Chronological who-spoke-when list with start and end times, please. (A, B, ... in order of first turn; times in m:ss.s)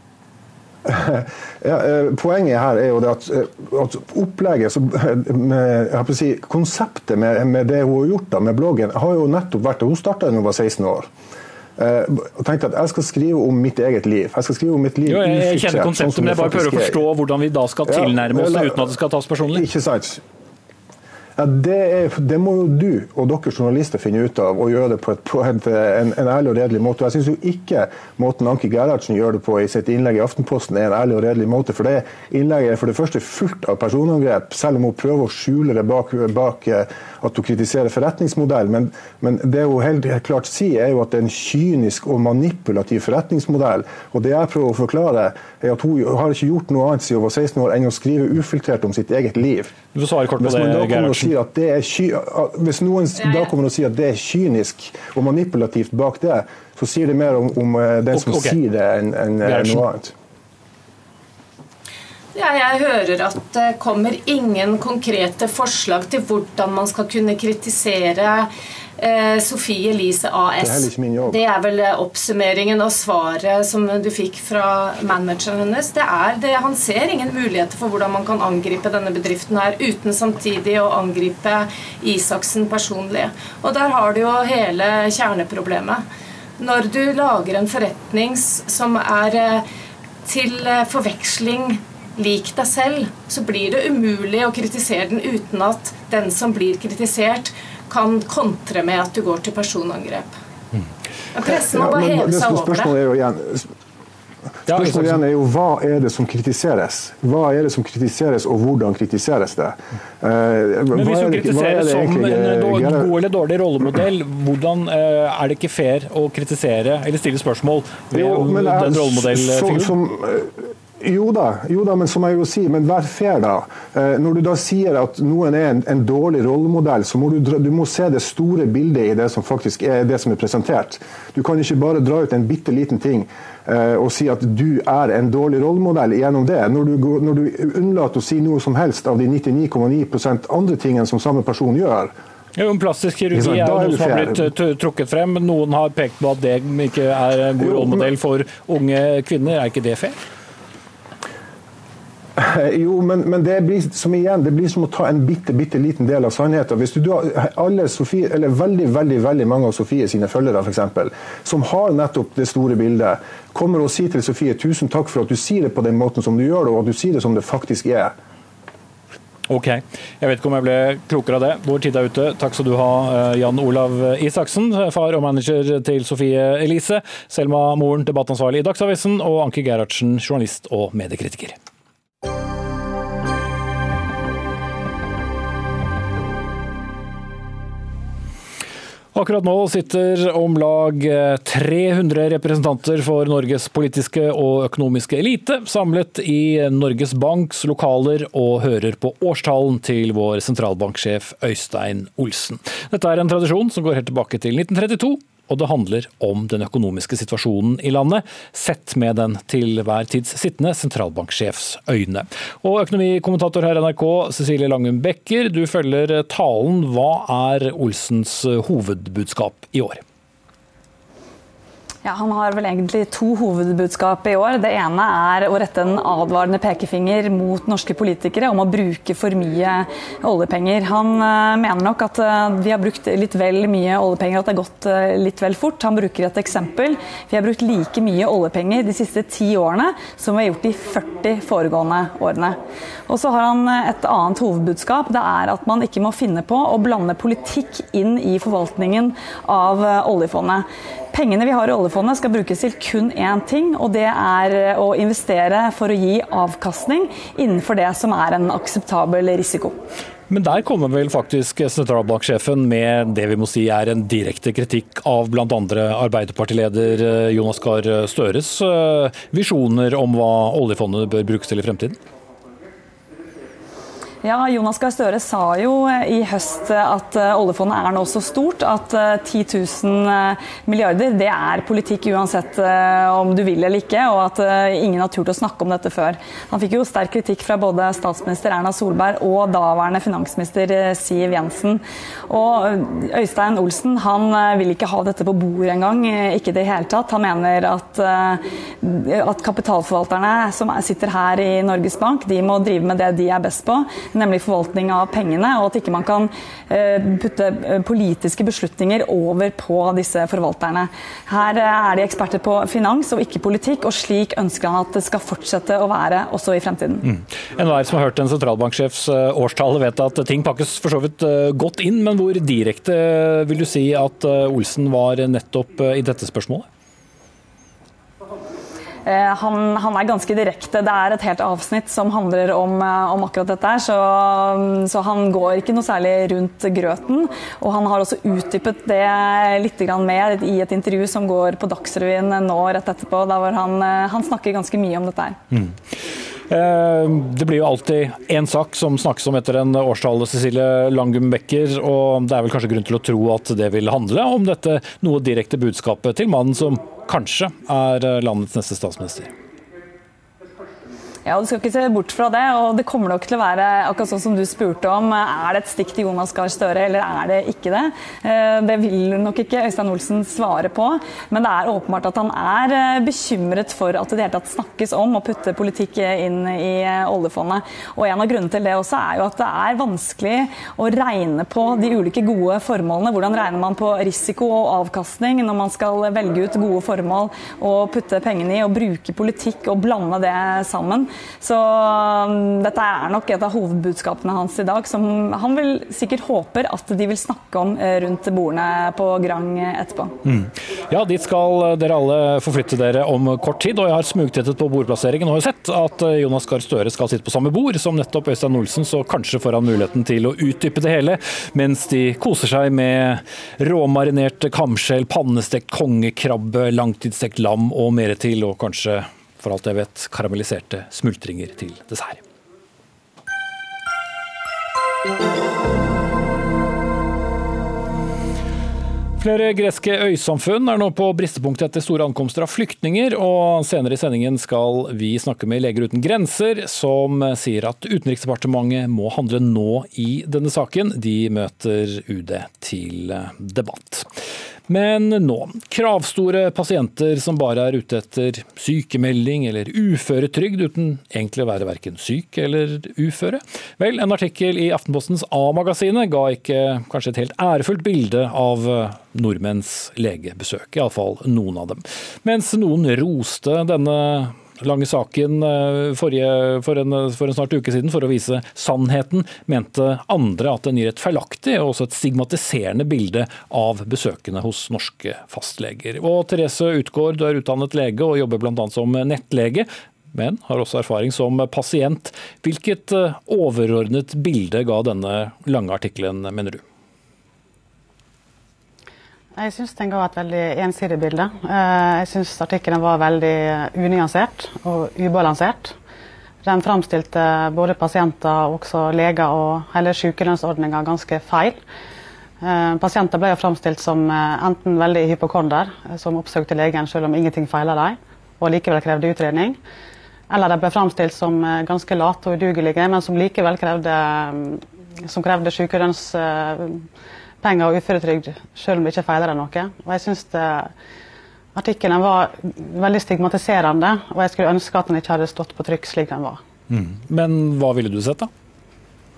0:00.8-0:11.1 A
0:11.8-0:17.0 A
0:15.0-0:19.7 B
0:17.9-0:18.9 A
0:19.5-0:20.2 A
0:21.4-0:49.8 A
0:49.9-0:51.3 B
0:50.4-1:00.1 A
0:53.2-0:53.5 C
0:58.1-0:58.6 B
0:59.4-0:59.8 B
1:02.3-1:26.0 C
1:10.6-1:11.4 A
1:26.6-1:29.6 C
1:30.2-1:40.3 C
1:41.3-1:42.9 C
1:41.6-1:43.7 A
1:44.7-1:45.2 B
1:44.7-1:53.1 A
1:50.9-1:59.9 B
1:58.1-2:22.1 A
2:22.6-2:30.2 B
2:23.3-2:24.5 A
2:27.6-2:28.0 A
2:32.4-2:48.1 A
2:49.5-3:01.6 B
3:09.1-3:40.0 B
3:42.0-4:19.8 D
4:20.3-4:32.0 B
4:34.2-5:17.0 D
5:17.0-5:26.7 B
5:29.0-5:45.4 D
5:45.5-5:45.8 B
5:46.5-5:59.3 B
6:01.2-6:40.2 D
6:40.2-7:02.2 B
7:09.2-7:24.1 B
7:24.7-8:06.6 B
8:09.3-8:15.8 E
8:16.4-8:21.6 E
8:22.4-8:29.6 E
8:30.3-8:36.9 E
8:37.4-8:40.7 E
8:41.5-8:46.4 E
8:46.7-8:48.3 B